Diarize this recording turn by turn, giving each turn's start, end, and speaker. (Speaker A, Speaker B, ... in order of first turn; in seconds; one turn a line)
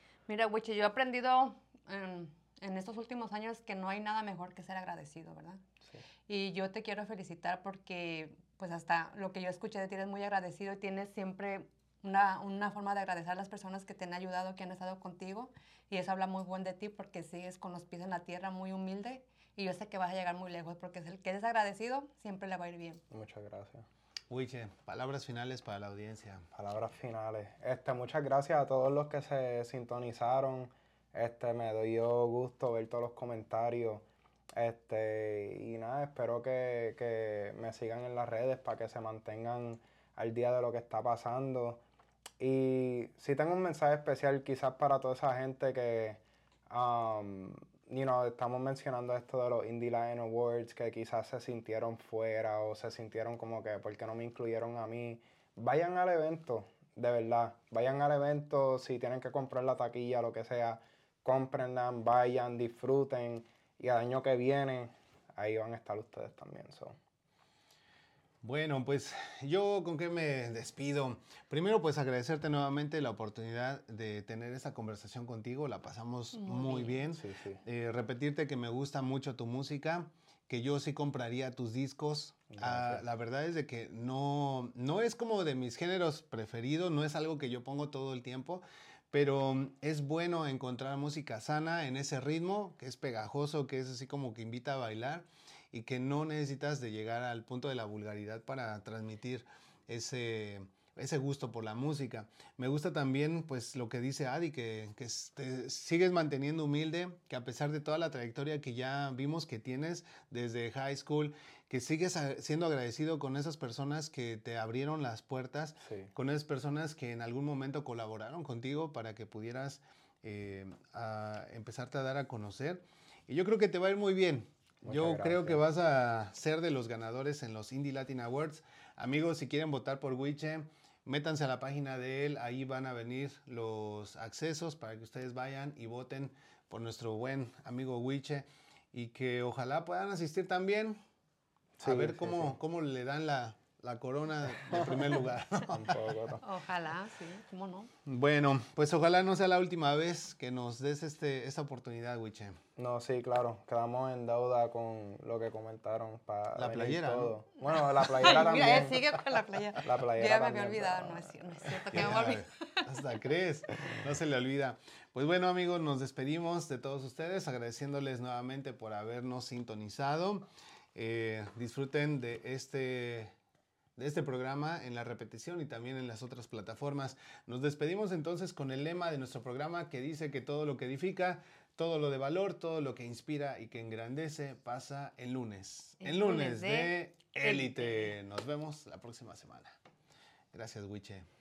Speaker A: 0.3-5.6
Speaker A: 6.3-23.0
Speaker B: 23.1-23.9
Speaker C: 24.3-26.4
Speaker B: 26.5-41.8
Speaker B: 42.4-67.0
Speaker C: 68.4-141.0
Speaker A: 76.3-77.0
Speaker B: 77.1-77.6
Speaker B: 82.5-83.0
Speaker B: 115.8-116.1
Speaker B: 124.8-125.6
Speaker B: 141.8-142.6
Speaker C: 141.8-146.0
Speaker B: 145.7-146.4
Speaker A: 146.4-147.9
Speaker C: 148.1-152.6
Speaker B: 152.8-159.2
Speaker C: 156.6-157.3
Speaker A: 157.7-162.8
Speaker B: 159.8-161.4
Speaker C: 161.9-173.3
Speaker C: 174.0-189.8
Speaker A: 186.0-188.1
Speaker C: 190.5-191.3